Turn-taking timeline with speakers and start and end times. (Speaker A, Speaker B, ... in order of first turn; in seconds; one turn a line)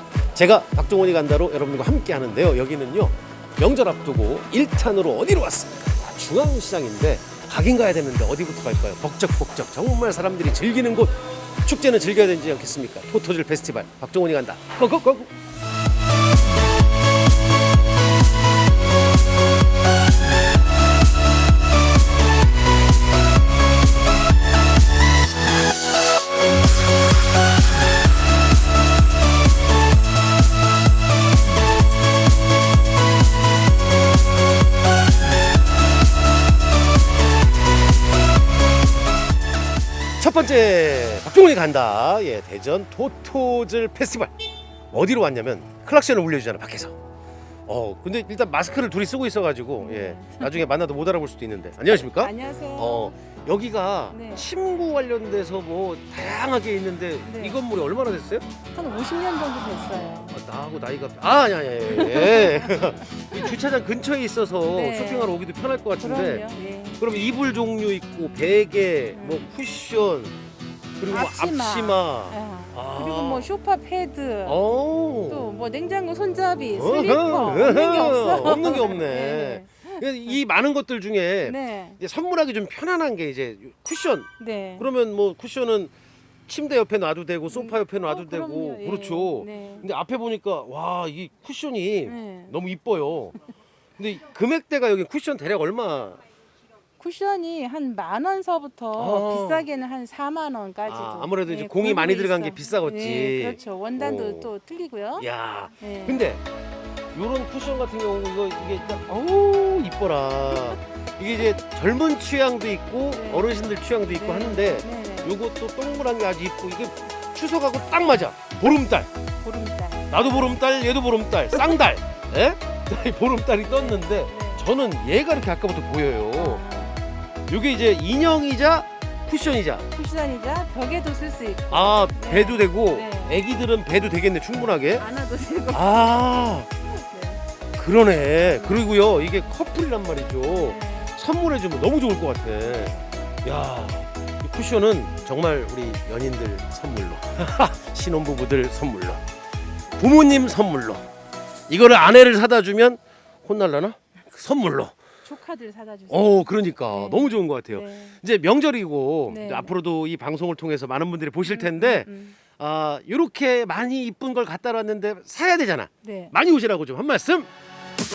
Speaker A: 0.3-15.3
Speaker A: 40.2-44.3
Speaker A: 44.9-47.0
Speaker A: 47.7-58.5
Speaker B: 49.8-50.6
Speaker B: 52.0-53.1
Speaker B: 54.1-54.5
Speaker B: 57.2-57.6
Speaker B: 58.7-60.3
Speaker A: 60.3-66.5
Speaker B: 61.9-63.5
Speaker B: 64.7-65.3
Speaker B: 66.0-67.0
Speaker A: 67.0-70.3
Speaker B: 69.1-69.5
Speaker A: 71.0-73.5
Speaker B: 71.1-74.6
Speaker A: 74.4-75.5
Speaker B: 75.3-80.4
Speaker A: 76.7-85.9
Speaker B: 81.4-82.0
Speaker B: 84.4-84.9
Speaker A: 86.5-93.3
Speaker B: 87.5-89.9
Speaker B: 92.0-92.5
Speaker A: 94.0-96.2
Speaker B: 97.0-105.3
Speaker A: 99.0-99.7
Speaker A: 100.8-104.5
Speaker A: 105.2-106.4
Speaker B: 105.8-106.2
Speaker A: 107.1-119.1
Speaker B: 113.1-113.5
Speaker B: 114.2-115.3
Speaker B: 119.4-120.5
Speaker A: 120.1-126.6
Speaker B: 123.7-124.6
Speaker B: 126.3-127.0
Speaker A: 127.5-129.8
Speaker B: 129.9-133.4
Speaker A: 131.7-135.0
Speaker B: 135.0-136.0
Speaker A: 135.7-136.7
Speaker B: 136.8-137.4
Speaker A: 137.8-149.2
Speaker B: 140.5-141.1
Speaker B: 142.6-143.3
Speaker B: 145.1-145.3
Speaker A: 150.0-151.0
Speaker A: 151.7-154.9
Speaker B: 155.2-158.2
Speaker A: 156.1-167.5
Speaker B: 159.3-159.7
Speaker B: 161.5-162.3
Speaker B: 166.0-166.3